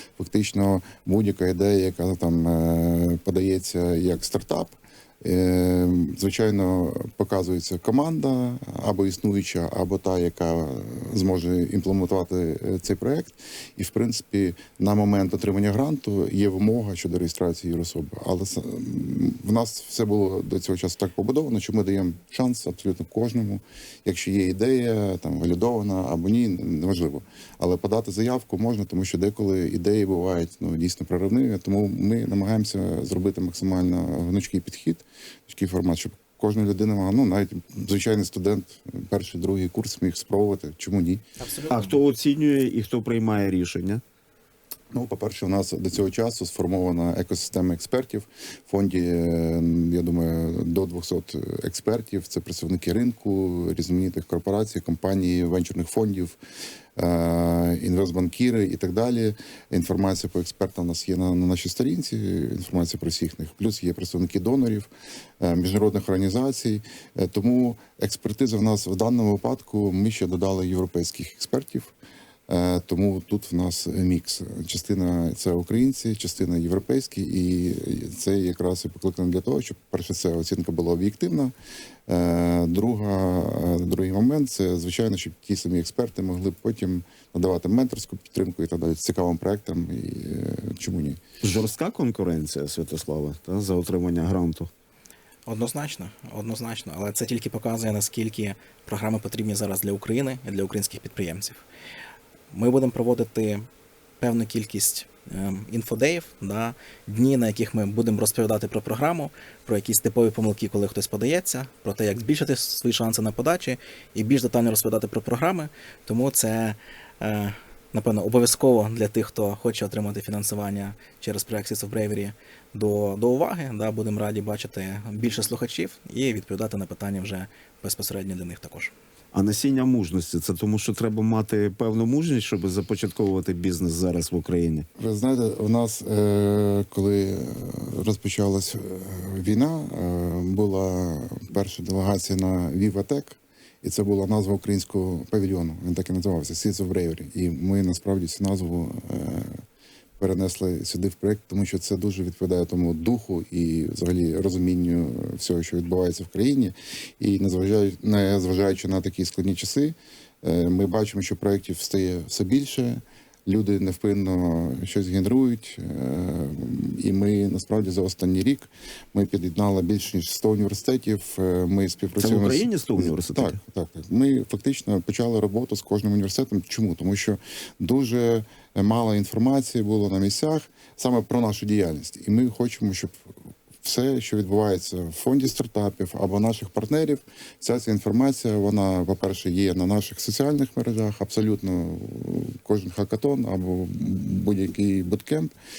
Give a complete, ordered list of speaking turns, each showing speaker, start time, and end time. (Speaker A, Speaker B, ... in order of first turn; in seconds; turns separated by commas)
Speaker A: 0.2-41.2, Speaker B: 41.4-42.0, Speaker C: 41.7-44.0, Speaker A: 44.9-56.4, Speaker A: 57.0-64.9, Speaker A: 65.4-71.9, Speaker A: 72.5-81.5, Speaker A: 82.1-91.2, Speaker C: 91.4-94.7, Speaker B: 95.5-101.6, Speaker B: 102.5-103.7, Speaker B: 104.2-128.9, Speaker C: 129.3-134.9, Speaker A: 135.0-149.6, Speaker A: 150.2-195.5, Speaker C: 172.2-173.6